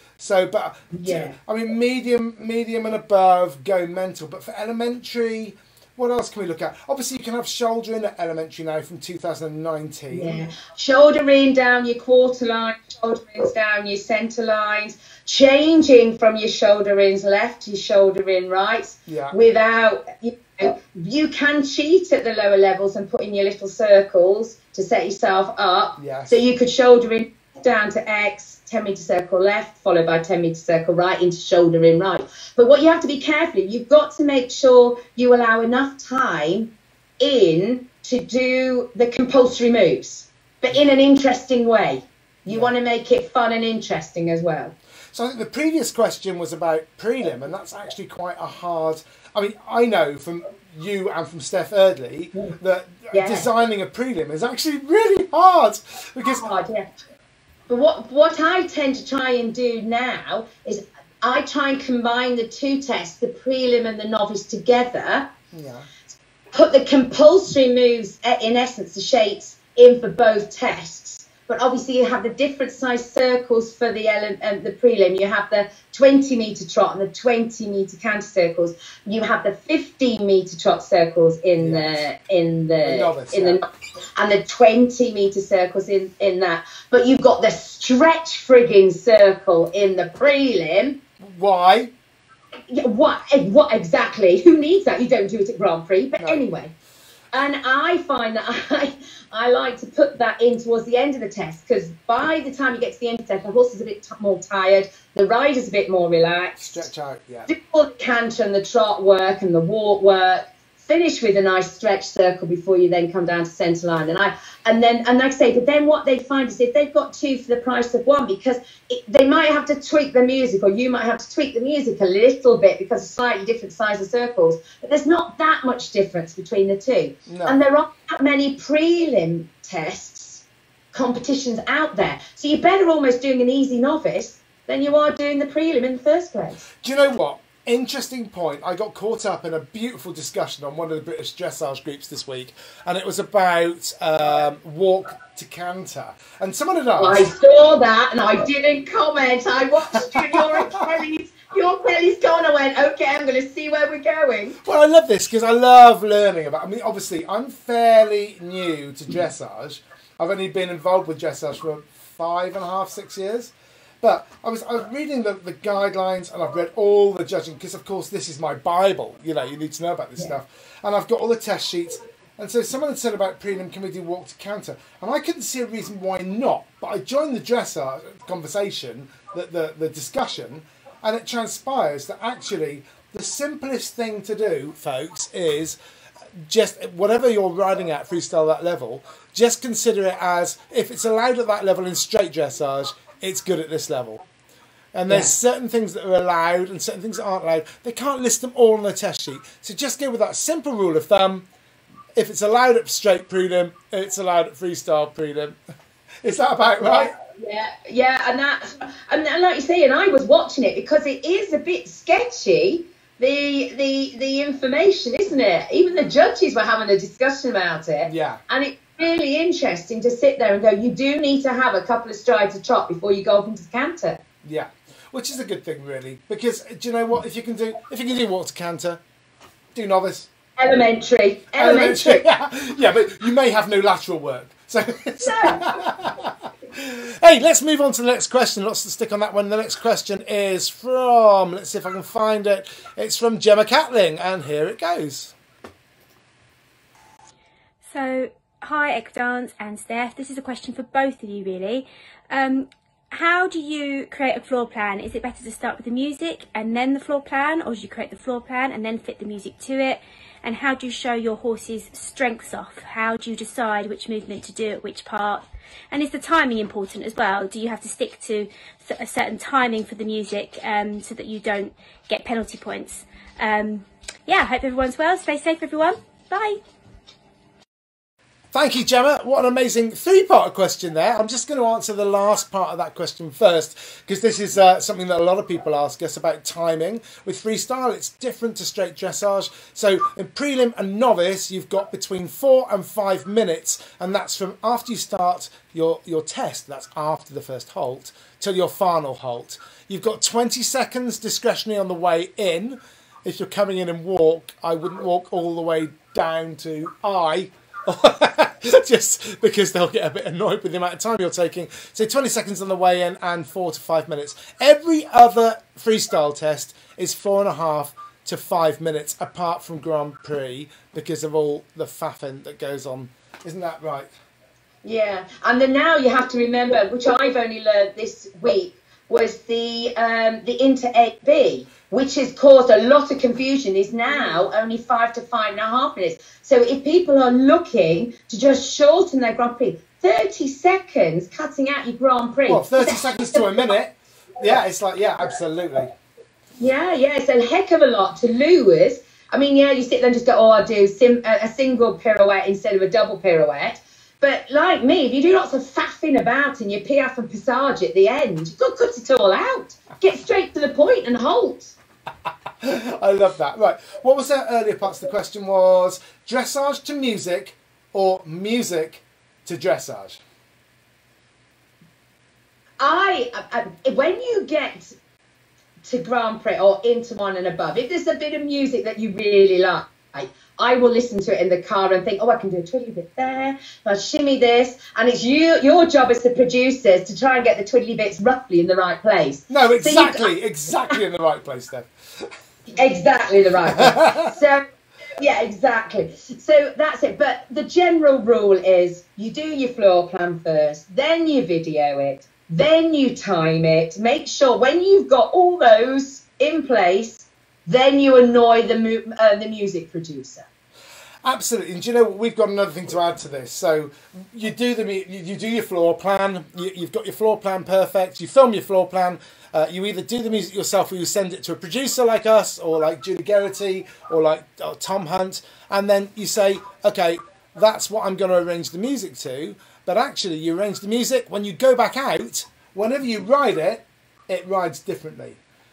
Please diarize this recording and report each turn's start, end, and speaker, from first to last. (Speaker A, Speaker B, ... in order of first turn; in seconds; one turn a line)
Speaker A: 0.2-10.4
Speaker B: 0.9-1.4
Speaker B: 10.1-44.8
Speaker A: 19.1-19.4
Speaker A: 26.0-26.4
Speaker A: 42.5-42.7
Speaker A: 45.1-56.5
Speaker B: 53.1-53.5
Speaker B: 56.3-56.9
Speaker B: 57.7-65.3
Speaker A: 65.5-65.9
Speaker B: 66.5-91.0
Speaker A: 81.6-82.0
Speaker A: 82.8-83.6
Speaker A: 91.2-91.9
Speaker B: 92.7-96.7
Speaker A: 96.2-96.4
Speaker B: 97.3-106.9
Speaker A: 106.6-107.5
Speaker B: 107.5-136.6
Speaker A: 127.3-127.6
Speaker A: 136.8-147.3
Speaker B: 147.0-154.6
Speaker A: 149.9-150.7
Speaker A: 154.6-185.8
Speaker A: 186.3-194.2
Speaker A: 194.9-201.5
Speaker B: 195.1-195.3
Speaker A: 202.1-205.6
Speaker A: 206.2-207.1
Speaker B: 206.8-224.2
Speaker A: 218.0-218.4
Speaker A: 224.4-229.0
Speaker A: 229.7-230.3
Speaker B: 230.6-232.3
Speaker A: 231.5-245.3
Speaker B: 235.2-235.8
Speaker C: 247.8-276.6
Speaker A: 278.5-324.1
Speaker B: 324.8-343.6
Speaker A: 342.5-345.9
Speaker B: 346.6-361.7
Speaker A: 362.6-370.2
Speaker B: 372.8-374.9
Speaker B: 375.8-390.3
Speaker A: 389.5-392.3
Speaker B: 392.7-394.6
Speaker A: 393.7-394.3
Speaker B: 395.2-410.5
Speaker A: 411.2-435.4